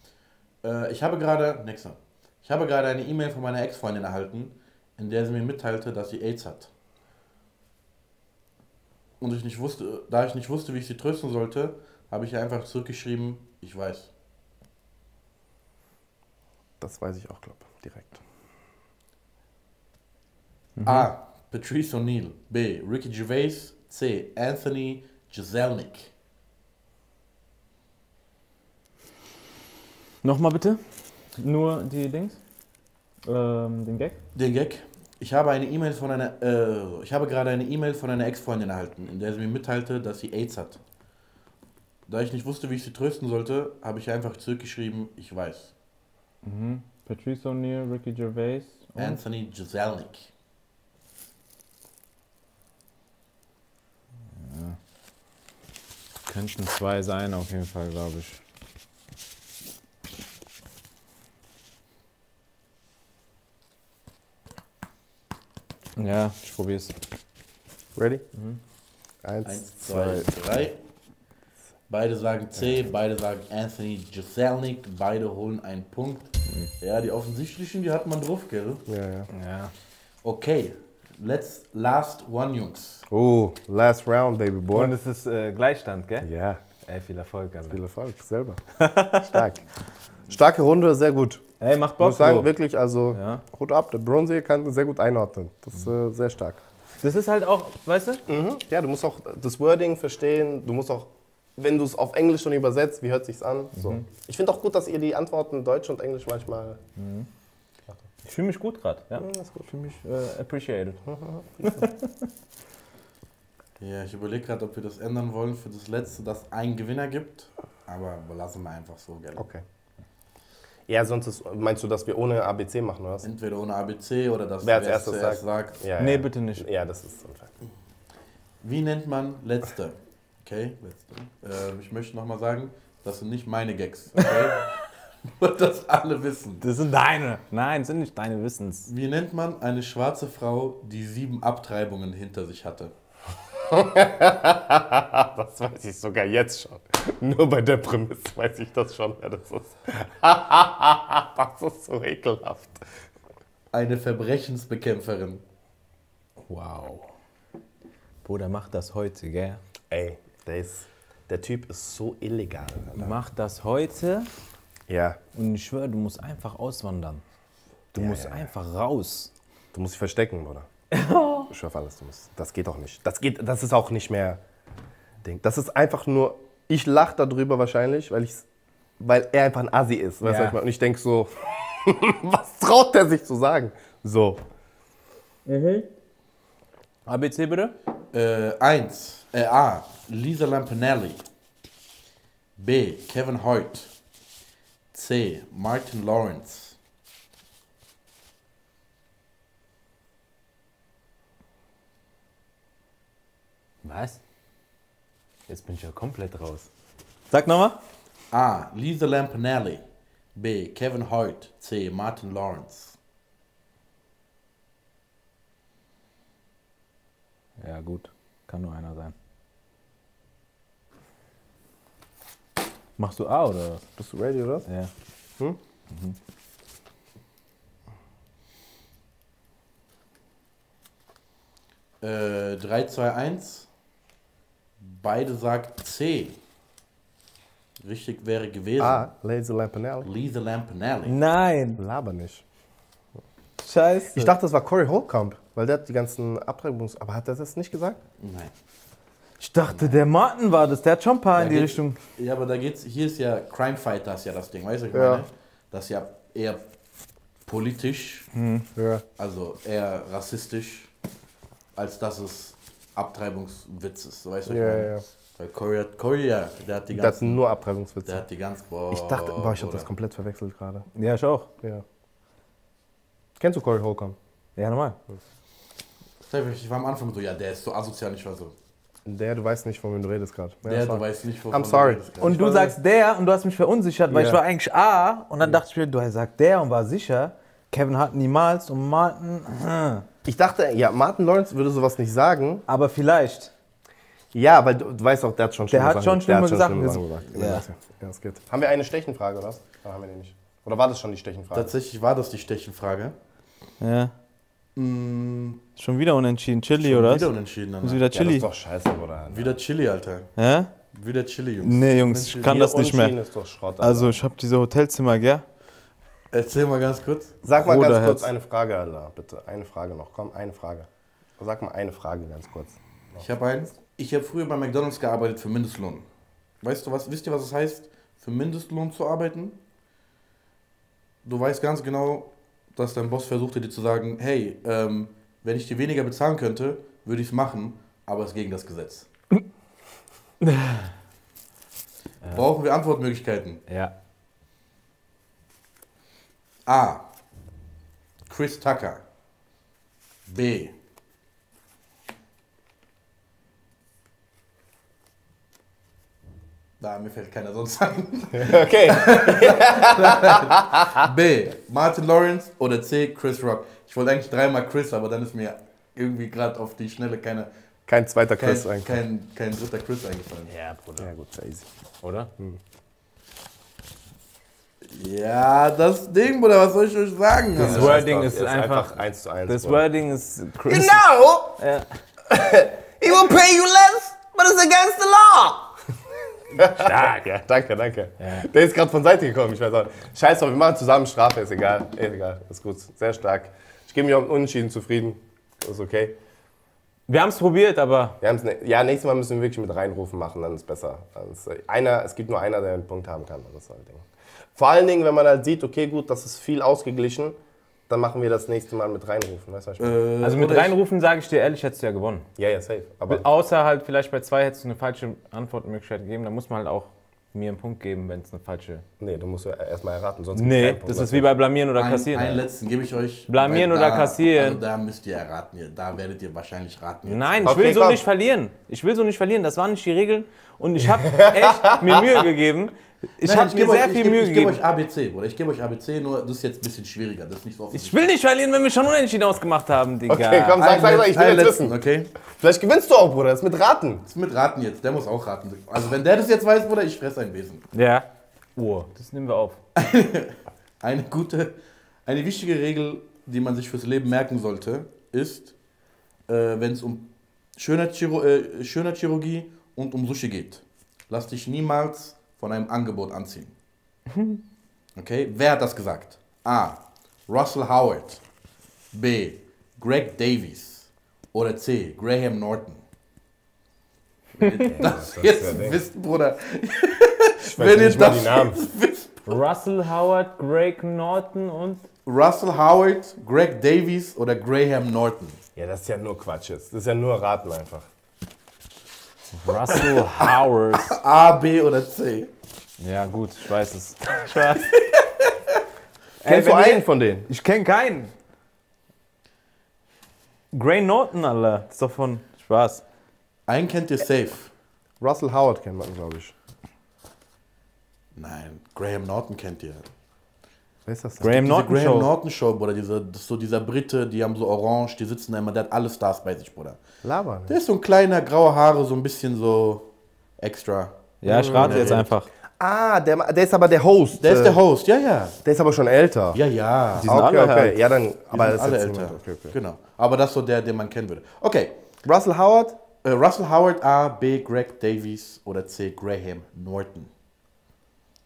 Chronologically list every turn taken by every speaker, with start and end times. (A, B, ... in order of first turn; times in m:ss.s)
0:00.6-0:06.7 A
0:09.2-0:14.1 A
0:16.8-0:18.2 B
0:20.8-0:21.1 C
0:20.8-0:26.1 A
0:30.2-0:30.8 C
0:31.3-0:32.4 C
0:33.3-0:34.2 C
0:34.4-0:40.8 A
0:42.1-0:45.7 A
0:46.4-0:49.2 C
0:49.0-0:50.3 A
0:54.4-0:54.8 C
0:56.3-0:58.4 C
1:06.0-1:07.0 C
1:08.0-1:08.2 B
1:09.2-1:10.3 B
1:09.4-1:10.8 A
1:11.9-1:18.8 A
1:18.9-1:19.3 B
1:19.3-1:19.7 C
1:20.2-1:23.0 A
1:23.1-1:24.9 B
1:24.7-1:26.3 C
1:26.2-1:26.6 B
1:26.8-1:27.8 C
1:27.7-1:28.6 B
1:28.8-1:29.4 C
1:29.2-1:29.6 B
1:30.3-1:31.4 B
1:31.6-1:32.5 C
1:32.0-1:36.6 B
1:33.1-1:33.4 C
1:37.0-1:38.2 C
1:38.3-1:46.8 B
1:43.8-1:44.0 C
1:47.0-1:47.3 C
1:48.2-1:51.0 C
1:49.2-1:49.7 B
1:51.1-1:51.8 B
1:51.6-1:52.1 C
1:53.8-1:59.5 A
1:59.4-1:59.6 B
2:00.9-2:03.3 B
2:03.2-2:05.8 A
2:04.6-2:07.5 B
2:06.0-2:06.7 C
2:08.6-2:16.6 A
2:16.6-2:18.9 C
2:18.9-2:22.9 A
2:23.7-2:32.8 B
2:33.7-2:35.4 A
2:36.5-2:37.1 C
2:38.2-2:39.6 C
2:39.9-2:43.2 B
2:43.0-2:44.3 C
2:44.9-2:45.2 B
2:45.4-2:47.2 C
2:47.9-2:49.3 C
2:48.0-2:48.5 B
2:49.7-2:50.7 B
2:50.9-2:51.5 C
2:51.5-2:54.4 B
2:55.2-2:58.4 B
2:59.0-3:04.4 B
3:00.2-3:00.6 C
3:05.5-3:05.9 C
3:07.1-3:07.7 C
3:08.1-3:11.2 A
3:12.6-3:13.9 A
3:14.9-3:16.8 A
3:23.8-3:24.2 C
3:25.5-3:26.7 C
3:27.3-3:27.8 C
3:28.3-3:29.8 A
3:30.4-3:33.0 A
3:37.6-3:39.1 C
3:43.0-3:43.8 C
3:44.0-3:44.7 B
3:45.9-3:46.2 C
3:52.0-3:53.7 A
3:54.8-3:56.4 A
3:57.8-3:59.1 A
3:58.8-4:00.1 B
4:00.0-4:01.2 A
4:01.1-4:01.8 C
4:01.8-4:02.4 B
4:03.6-4:04.3 C
4:04.1-4:08.0 B
4:08.2-4:08.5 A
4:09.4-4:12.0 C
4:11.3-4:16.6 A
4:14.9-4:15.2 B
4:17.4-4:18.3 A
4:18.3-4:18.7 C
4:18.8-4:19.0 B
4:19.2-4:20.9 A
4:21.8-4:27.4 A
4:24.5-4:25.0 B
4:26.9-4:28.2 B
4:28.0-4:29.9 A
4:28.9-4:30.9 B
4:31.0-4:31.5 C
4:33.4-4:34.2 B
4:34.6-4:35.0 C
4:36.3-4:38.5 A
4:39.1-4:42.7 B
4:40.6-4:42.6 A
4:42.2-4:50.0 C
4:44.1-4:44.4 B
4:50.2-4:52.6 B
4:52.7-4:53.5 C
4:54.3-5:01.7 B
4:55.7-4:57.6 C
5:01.5-5:03.2 A
5:03.8-5:04.1 C
5:04.8-5:05.6 A
5:05.8-5:07.3 C
5:06.8-5:08.1 A
5:07.8-5:08.5 C
5:08.1-5:09.6 B
5:09.3-5:10.3 A
5:10.4-5:10.7 C
5:10.9-5:12.6 A
5:11.6-5:13.2 C
5:12.4-5:14.2 B
5:13.8-5:15.4 C
5:16.3-5:17.4 A
5:17.4-5:23.2 B
5:17.6-5:18.3 C
5:23.2-5:26.0 A
5:26.6-5:29.6 A
5:31.2-5:39.1 A
5:40.4-5:40.9 C
5:42.3-5:43.6 A
5:43.7-5:43.9 C
5:46.7-5:47.1 A
5:48.3-5:49.0 A
5:50.3-5:50.8 A
5:56.8-6:07.5 A
5:58.3-6:01.1 B
6:07.9-6:09.0 B
6:08.4-6:10.5 A
6:10.5-6:11.1 C
6:11.0-6:11.7 B
6:12.0-6:12.3 C
6:14.9-6:18.0 A
6:17.6-6:19.9 B
6:17.6-6:18.9 C
6:19.5-6:21.9 C
6:20.7-6:21.6 B
6:22.3-6:25.8 B
6:26.5-6:36.2 B
6:26.6-6:27.2 C
6:28.2-6:28.5 C
6:37.1-6:38.2 C
6:38.2-6:44.0 B
6:44.6-6:47.4 B
6:47.9-6:50.0 B
6:49.8-6:50.8 A
6:50.2-6:52.3 C
6:52.4-6:53.3 B
6:53.1-6:58.8 C
6:59.0-7:01.3 B
7:00.4-7:02.4 C
7:01.8-7:07.6 A
7:03.3-7:04.6 C
7:07.1-7:14.6 C
7:07.4-7:08.0 B
7:10.8-7:12.3 B
7:13.2-7:18.1 A
7:17.7-7:20.6 C
7:20.1-7:24.0 B
7:20.6-7:22.1 A
7:24.1-7:27.7 A
7:27.7-7:29.6 C
7:29.8-7:31.6 A
7:32.1-7:35.5 A
7:36.3-7:43.5 A
7:44.1-7:44.4 C
7:45.0-7:48.2 A
7:48.9-7:52.8 A
7:54.4-7:59.4 A
7:54.6-7:55.8 B
7:57.4-7:58.6 B
7:59.3-8:01.8 C
8:02.1-8:05.4 A
8:05.6-8:07.9 B
8:09.3-8:11.0 C
8:09.7-8:12.3 A
8:12.8-8:14.8 C
8:14.7-8:15.3 A
8:16.2-8:18.1 C
8:16.2-8:17.3 B
8:20.5-8:22.8 C
8:23.5-8:24.5 A
8:25.0-8:26.4 B
8:28.2-8:29.9 A
8:30.9-8:31.4 B
8:31.2-8:32.1 C
8:31.3-8:36.8 A
8:37.0-8:37.6 B
8:37.5-8:42.1 A
8:41.2-8:42.3 C
8:41.3-8:42.1 B
8:42.6-8:44.6 B
8:44.2-8:45.4 A
8:45.4-8:46.4 B
8:46.3-8:47.1 A
8:47.0-8:49.6 B
8:47.0-8:47.8 C
8:48.3-8:51.8 A
8:52.0-8:52.8 B
8:53.0-8:57.1 A